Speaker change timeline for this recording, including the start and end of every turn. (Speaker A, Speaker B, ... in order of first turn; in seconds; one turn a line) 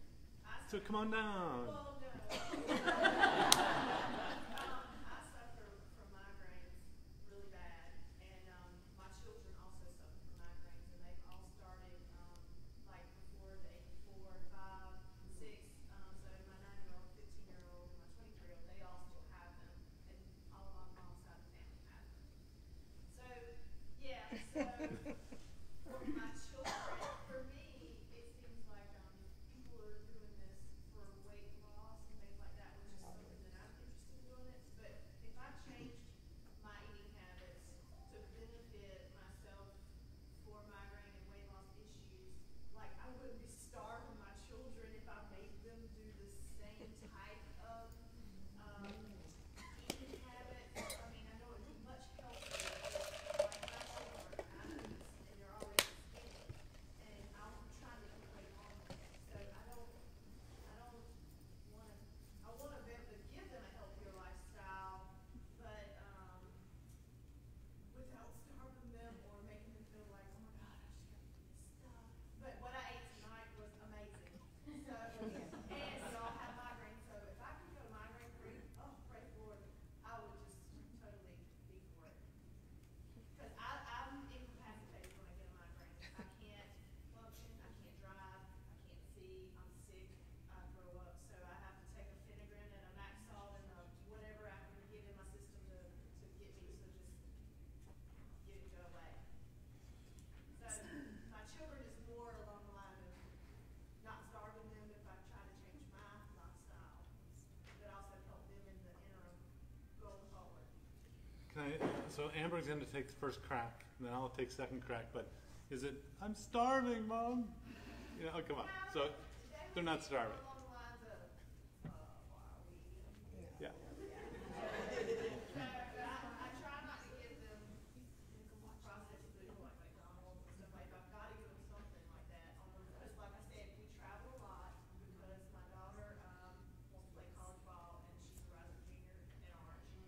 Speaker A: 0.4-22.1
Speaker B: 0.7-1.9
Speaker A: 23.1-39.8
Speaker A: 40.3-60.0
Speaker A: 60.6-66.6
Speaker A: 67.8-82.2
Speaker A: 83.3-97.2
Speaker A: 98.4-99.2
Speaker A: 100.5-103.3
Speaker A: 104.0-107.1
Speaker A: 107.7-110.7
Speaker B: 111.5-119.2
Speaker A: 118.4-139.9
Speaker B: 119.7-120.4